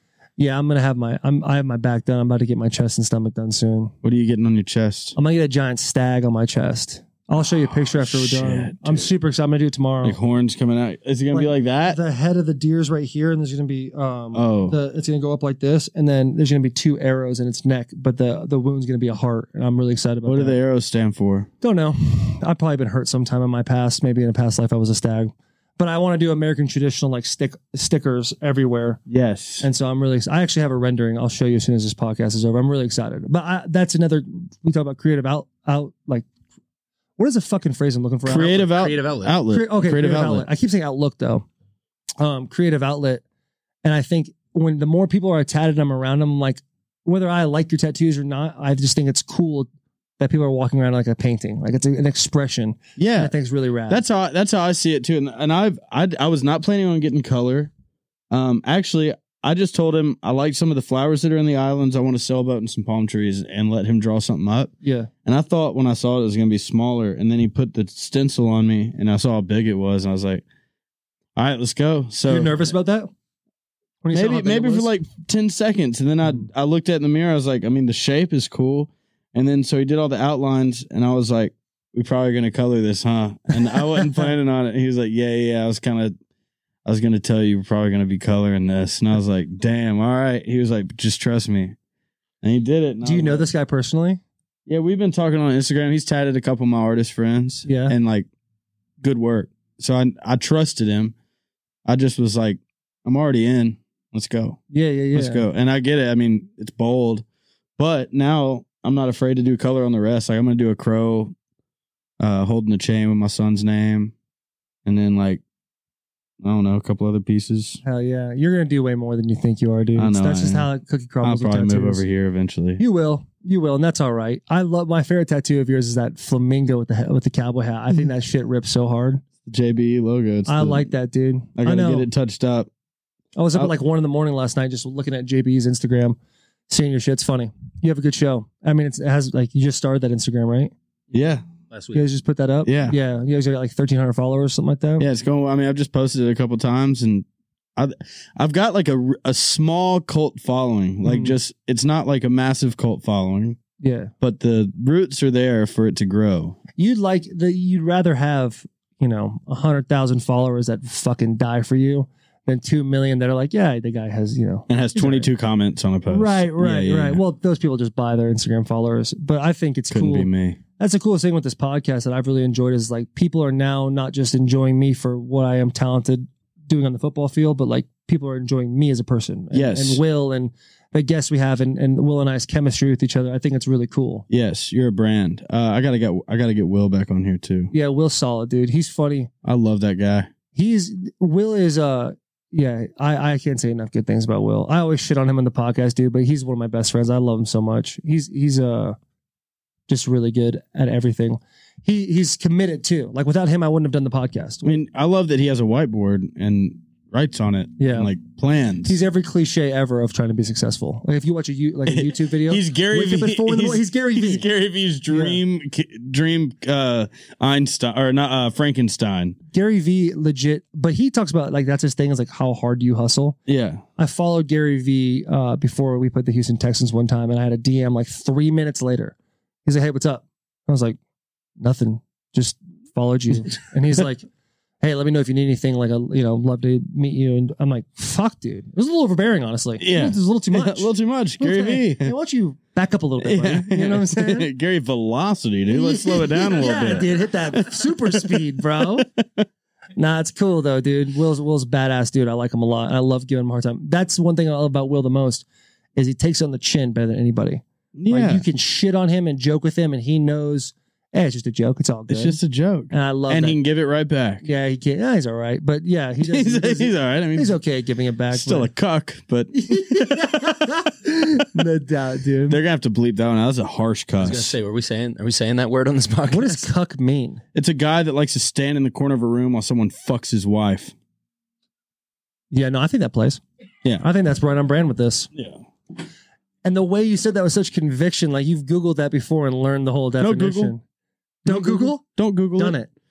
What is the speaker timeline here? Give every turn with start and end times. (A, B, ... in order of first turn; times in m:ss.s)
0:00.4-0:03.9 A
0:04.0-0:05.2 B
0:05.2-0:10.2 A
0:07.6-0:09.1 B
0:10.0-0:12.0 B
0:11.3-0:20.6 A
0:14.3-0:14.8 B
0:20.2-0:21.5 B
0:21.6-0:29.0 A
0:29.1-0:29.7 B
0:29.6-0:36.3 A
0:37.2-0:38.7 A
0:38.2-0:40.5 B
0:38.7-0:39.4 C
0:39.5-0:41.5 A
0:42.2-0:43.2 A
0:43.8-0:49.7 A
0:50.2-0:54.0 A
0:53.0-0:53.3 B
0:53.9-0:57.7 B
0:58.3-1:04.7 B
1:04.8-1:05.1 A
1:05.2-1:10.4 B
1:11.4-1:12.7 B
1:12.3-1:13.1 A
1:14.0-1:14.9 A
1:14.1-1:26.2 B
1:23.7-1:24.2 A
1:26.8-1:31.8 B
1:32.4-1:33.5 B
1:33.0-1:34.2 A
1:34.7-1:38.3 B
1:37.7-1:37.9 A
1:39.0-1:41.2 B
1:41.9-1:44.6 B
1:44.7-1:45.4 A
1:45.1-1:47.2 B
1:47.8-1:51.3 B
1:52.2-1:54.1 B
1:54.8-1:55.4 B
1:56.4-1:57.8 B
1:57.8-2:02.0 A
2:00.0-2:00.7 B
2:01.2-2:02.8 B
2:02.8-2:09.2 A
2:09.4-2:10.9 B
2:10.5-2:12.1 A
2:11.6-2:12.7 B
2:13.4-2:16.2 A
2:16.7-2:20.7 A
2:21.1-2:21.4 B
2:21.7-2:22.0 C
2:21.9-2:25.1 A
2:22.6-2:23.0 B
2:25.0-2:27.2 B
2:27.8-2:33.6 B
2:31.0-2:31.4 A
2:33.8-2:34.1 A
2:34.2-2:36.6 B
2:36.8-2:45.3 A
2:44.7-2:47.2 B
2:46.1-3:04.2 A
2:49.9-2:50.6 B
2:59.5-3:00.0 B
3:04.3-3:07.7 B
3:07.7-3:09.3 A
3:09.4-3:10.3 B
3:10.6-3:19.0 A
3:19.9-3:24.8 A
3:24.6-3:29.0 B
3:27.8-3:28.1 A
3:28.8-3:34.4 A
3:31.9-3:39.4 B
3:35.1-3:35.4 A
3:39.5-3:43.4 A
3:43.5-3:43.8 B
3:44.0-3:51.0 A
3:51.6-3:54.3 A
3:54.8-4:04.5 A
3:59.8-4:02.1 B
4:03.2-4:08.4 B
4:05.7-4:09.1 A
4:10.0-4:22.4 A
4:18.0-4:18.4 B
4:22.1-4:24.4 B
4:22.9-4:23.6 A
4:24.4-4:28.7 A
4:26.2-4:27.6 B
4:28.3-4:30.0 B
4:29.5-4:32.6 A
4:32.5-4:34.6 B
4:34.2-4:36.7 C
4:36.3-4:37.4 A
4:37.6-4:40.9 B
4:42.5-4:43.4 A
4:44.0-4:45.3 A
4:45.3-4:45.6 B
4:46.6-4:50.8 A
4:50.2-4:50.7 B
4:51.4-4:52.0 A
4:51.5-4:52.8 B
4:52.6-4:52.9 A